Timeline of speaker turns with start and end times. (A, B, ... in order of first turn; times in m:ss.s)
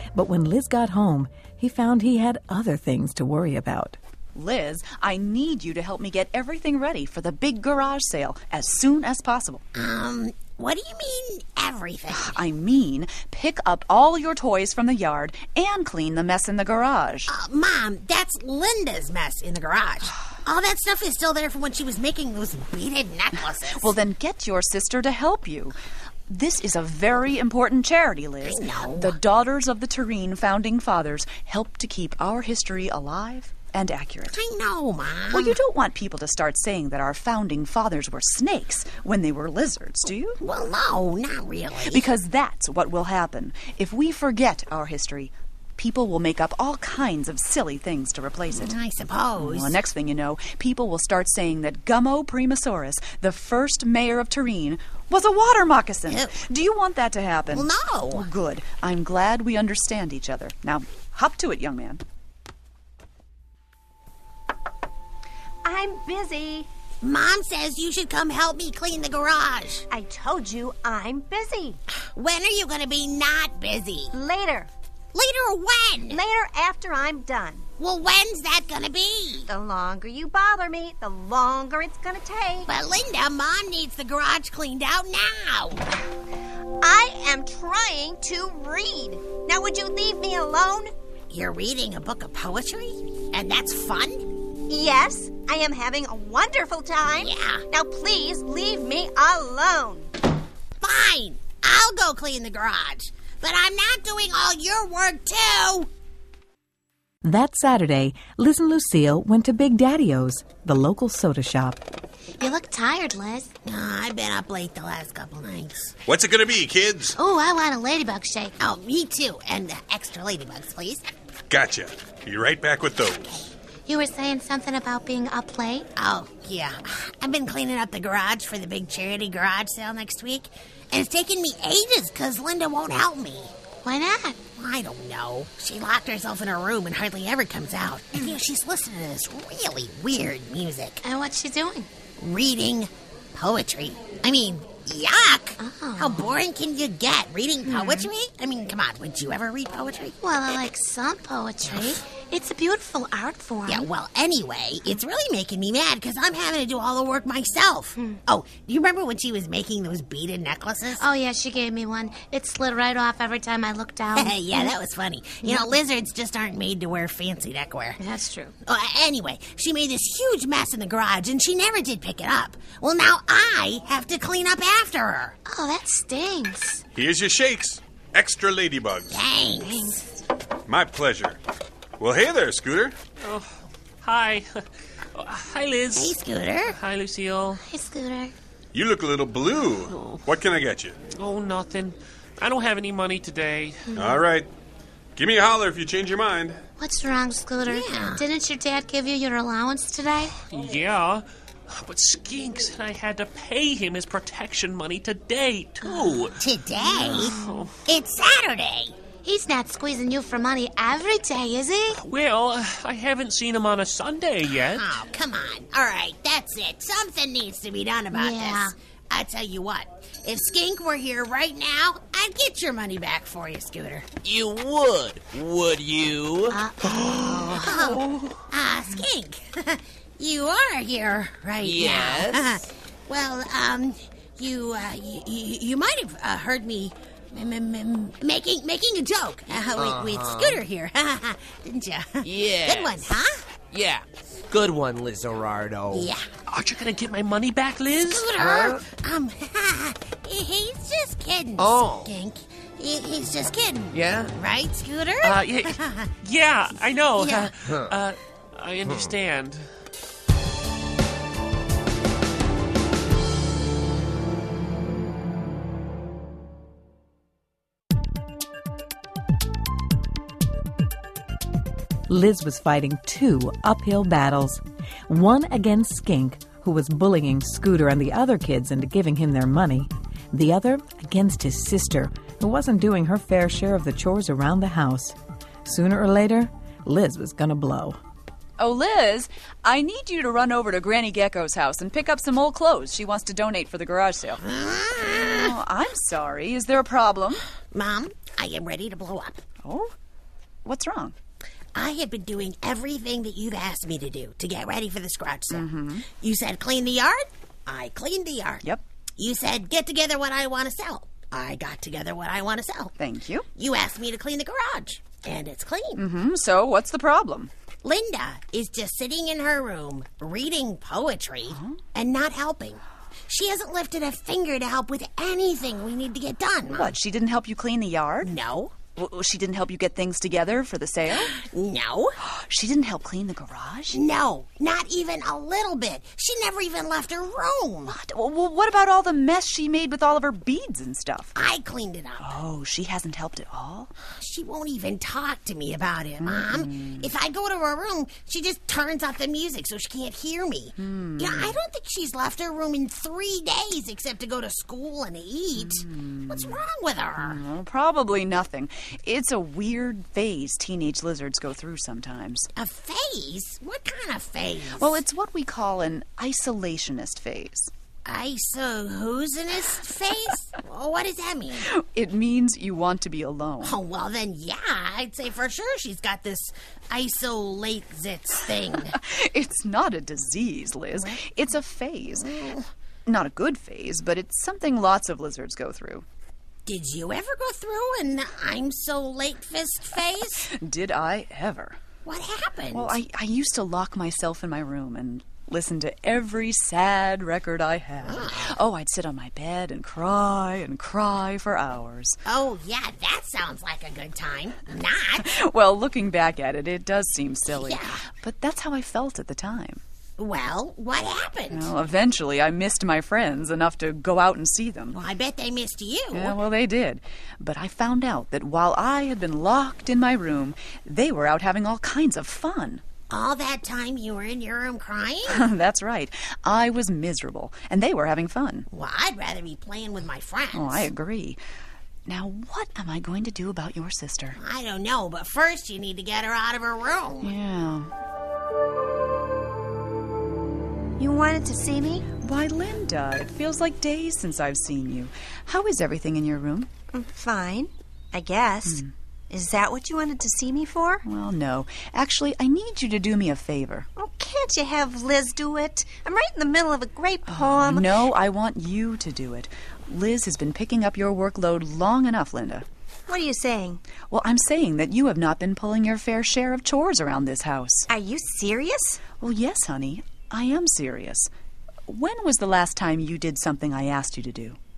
0:00.1-0:04.0 A
0:04.4-0:09.6 B
0:09.8-0:12.4 C
0:12.1-0:17.3 B
0:17.3-0:23.9 C
0:23.8-0:25.8 B
0:26.3-0:34.4 B
0:28.4-0:29.2 C
0:34.3-0:35.6 C
0:35.3-0:40.4 B
0:40.4-0:42.1 C
0:41.9-0:48.7 B
0:48.5-0:49.8 C
0:49.4-1:02.0 B
0:56.1-0:56.4 C
0:57.5-0:58.3 C
1:05.6-1:06.7 D
1:07.0-1:09.9 C
1:09.9-1:11.8 D
1:12.2-1:14.2 C
1:14.1-1:14.7 D
1:15.1-1:16.2 C
1:16.1-1:17.6 D
1:17.8-1:19.5 C
1:19.5-1:22.7 D
1:22.7-1:25.9 C
1:26.8-1:30.9 D
1:31.3-1:34.3 C
1:34.7-1:40.1 D
1:37.1-1:37.7 C
1:40.8-1:45.9 C
1:47.2-1:51.8 A
1:52.4-1:53.5 E
1:53.6-1:56.0 C
1:56.1-1:57.2 F
1:57.1-1:58.6 E
1:58.6-2:01.0 C
2:01.5-2:03.5 F
2:03.9-2:05.9 E
2:06.0-2:13.5 C
2:13.8-2:14.4 E
2:14.6-2:21.0 C
2:21.0-2:21.9 E
2:22.2-2:30.2 C
2:25.6-2:26.3 E
2:27.7-2:28.1 E
2:30.2-2:33.9 E
2:31.7-2:32.0 C
2:33.7-2:41.0 C
2:41.0-2:44.7 E
2:44.2-2:48.0 C
2:45.4-2:45.7 E
2:48.0-2:48.5 E
2:48.6-2:55.4 C
2:55.4-2:56.8 E
2:57.0-2:59.2 F
2:59.0-3:00.0 C
2:59.6-3:00.0 E
3:00.7-3:01.4 F
3:02.0-3:03.0 F
3:03.2-3:04.6 G
3:05.1-3:07.6 G
3:06.0-3:06.8 C
3:07.6-3:08.3 E
3:08.7-3:11.0 F
3:09.9-3:10.2 G
3:11.1-3:13.9 G
3:13.9-3:14.2 E
3:14.0-3:14.5 F
3:15.2-3:16.6 F
3:16.8-3:20.4 E
3:17.7-3:18.2 C
3:20.4-3:26.4 G
3:26.4-3:29.0 C
3:26.9-3:27.6 E
3:27.0-3:27.8 G
3:29.2-3:32.0 E
3:32.0-3:35.0 G
3:34.6-3:44.1 C
3:38.1-3:38.7 E
3:44.2-3:46.6 H
3:46.5-3:47.8 E
3:47.4-4:03.5 C
3:51.6-3:52.6 H
3:59.6-4:00.6 H
4:02.2-4:06.1 H
4:05.9-4:06.3 C
4:06.5-4:08.3 G
4:08.1-4:16.1 C
4:08.4-4:08.8 H
4:11.6-4:12.1 H
4:13.9-4:14.3 H
4:15.2-4:19.7 G
4:17.2-4:17.5 C
4:17.6-4:18.0 H
4:18.8-4:19.1 H
4:32.1-4:48.0 A
4:48.6-4:54.4 B
4:54.4-4:55.5 C
4:55.3-4:57.4 B
4:57.7-4:59.4 C
4:59.6-4:59.9 B
5:00.6-5:01.1 B
5:01.8-5:08.7 C
5:05.5-5:06.1 B
5:09.2-5:13.0 C
5:13.0-5:13.5 B
5:13.6-5:16.0 C
5:16.0-5:17.5 B
5:17.8-5:26.9 C
5:21.5-5:21.8 B
5:26.7-5:28.3 B
5:28.2-5:28.8 C
5:29.0-5:31.4 B
5:31.1-5:32.2 C
5:32.2-5:34.0 B
5:33.9-5:38.0 C
5:37.9-5:41.3 B
5:41.4-5:42.3 C
5:42.2-5:43.9 B
5:44.1-5:57.4 C
5:46.2-5:47.1 B
5:50.8-5:51.6 B
5:55.6-5:56.6 B
5:57.2-6:02.5 B
6:02.6-6:05.0 C
6:04.8-6:07.7 B
6:08.0-6:11.7 C
6:11.6-6:13.8 B
6:13.6-6:19.0 C
6:18.9-6:22.3 B
6:22.2-6:22.7 C
6:23.1-6:26.0 B
6:26.7-6:30.5 C
6:30.4-6:31.8 B
6:32.0-6:33.0 C
6:32.7-6:42.2 B
6:38.0-6:38.6 C
6:42.3-6:45.3 C
6:45.2-6:49.8 B
6:47.5-6:48.0 C
6:50.2-6:51.7 C
6:51.5-6:55.0 B
6:54.9-6:56.4 C
6:56.1-7:02.8 B
7:03.1-7:05.4 C
7:05.3-7:08.7 B
7:08.7-7:10.9 C
7:10.5-7:11.4 B
7:12.1-7:14.4 B
7:14.4-7:17.3 C
7:17.2-7:17.9 B
7:21.0-7:22.1 D
7:22.2-7:26.7 B
7:26.9-7:31.0 D
7:28.7-7:28.9 B
7:31.0-7:33.9 B
7:34.0-7:38.0 D
7:37.3-7:42.6 B
7:43.1-7:43.8 D
7:44.1-7:47.9 B
7:47.9-7:49.0 D
7:49.2-7:51.3 B
7:51.9-7:54.6 B